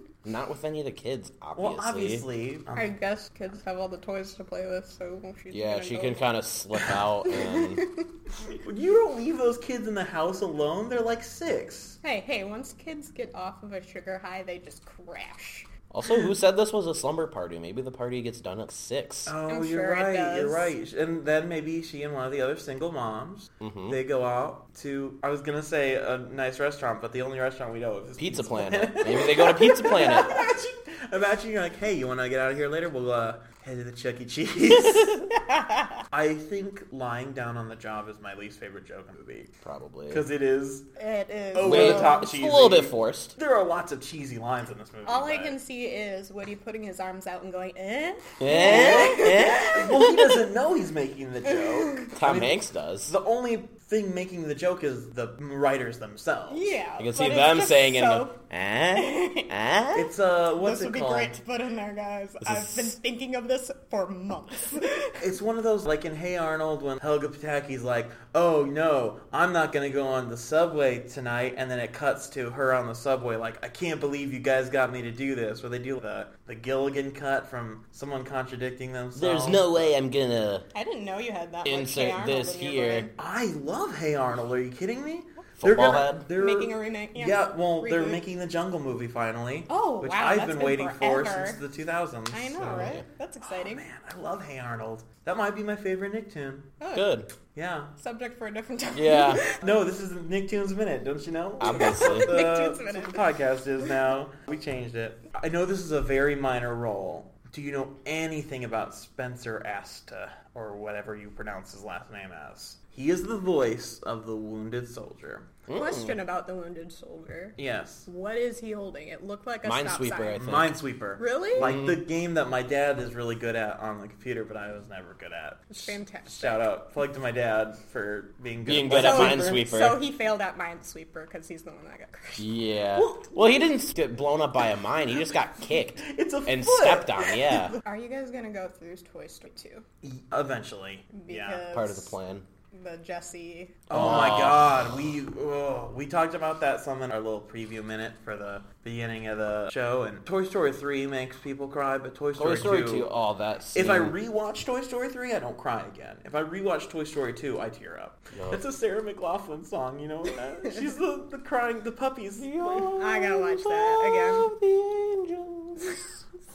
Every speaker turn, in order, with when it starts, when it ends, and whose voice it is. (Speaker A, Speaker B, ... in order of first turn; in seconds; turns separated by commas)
Speaker A: 0.2-2.2, Speaker B: 1.5-2.9, Speaker C: 2.7-8.2, Speaker A: 5.5-7.9, Speaker B: 8.5-12.0, Speaker C: 12.0-15.7, Speaker A: 15.9-19.3, Speaker B: 19.2-35.3, Speaker C: 19.4-20.7, Speaker A: 23.6-24.0, Speaker A: 28.2-30.5, Speaker C: 29.3-30.5, Speaker C: 35.3-36.0, Speaker B: 36.1-39.5, Speaker A: 39.6-40.2, Speaker B: 40.1-40.9, Speaker C: 41.0-42.3, Speaker B: 41.5-45.6, Speaker A: 41.6-43.3, Speaker C: 45.0-50.4, Speaker A: 48.4-50.1, Speaker B: 48.5-56.7, Speaker C: 51.5-52.1, Speaker A: 52.1-53.1, Speaker C: 56.5-58.4, Speaker A: 57.0-60.1, Speaker C: 58.9-59.5, Speaker B: 59.9-61.3, Speaker C: 60.6-65.2, Speaker A: 62.4-62.9, Speaker B: 65.2-79.9, Speaker A: 79.1-80.7, Speaker C: 80.7-83.1, Speaker A: 81.6-83.1, Speaker B: 83.2-93.0, Speaker A: 85.6-86.3, Speaker C: 86.3-88.2, Speaker C: 89.7-91.6, Speaker C: 92.3-93.8, Speaker A: 92.6-93.0, Speaker B: 93.5-96.8, Speaker C: 96.8-97.2, Speaker A: 96.9-97.3, Speaker B: 97.5-97.9, Speaker C: 98.0-99.6, Speaker A: 98.9-99.5, Speaker B: 99.6-115.5, Speaker A: 101.6-102.3, Speaker C: 101.6-103.3, Speaker A: 115.7-116.2, Speaker C: 115.7-120.5, Speaker B: 117.6-118.1, Speaker A: 119.6-120.8, Speaker B: 120.3-129.7, Speaker C: 121.2-121.7, Speaker A: 121.6-122.0, Speaker C: 125.7-126.6, Speaker A: 128.6-130.0, Speaker C: 128.9-132.5, Speaker A: 132.4-137.8, Speaker B: 132.9-133.3, Speaker B: 135.8-137.3, Speaker C: 137.4-139.8, Speaker B: 140.0-141.6, Speaker C: 141.1-142.1, Speaker A: 141.7-142.5, Speaker C: 142.7-143.9, Speaker A: 143.9-144.8, Speaker B: 143.9-153.1, Speaker A: 152.3-154.2, Speaker B: 153.7-163.3, Speaker A: 158.3-158.6, Speaker A: 162.4-166.1, Speaker C: 162.8-164.5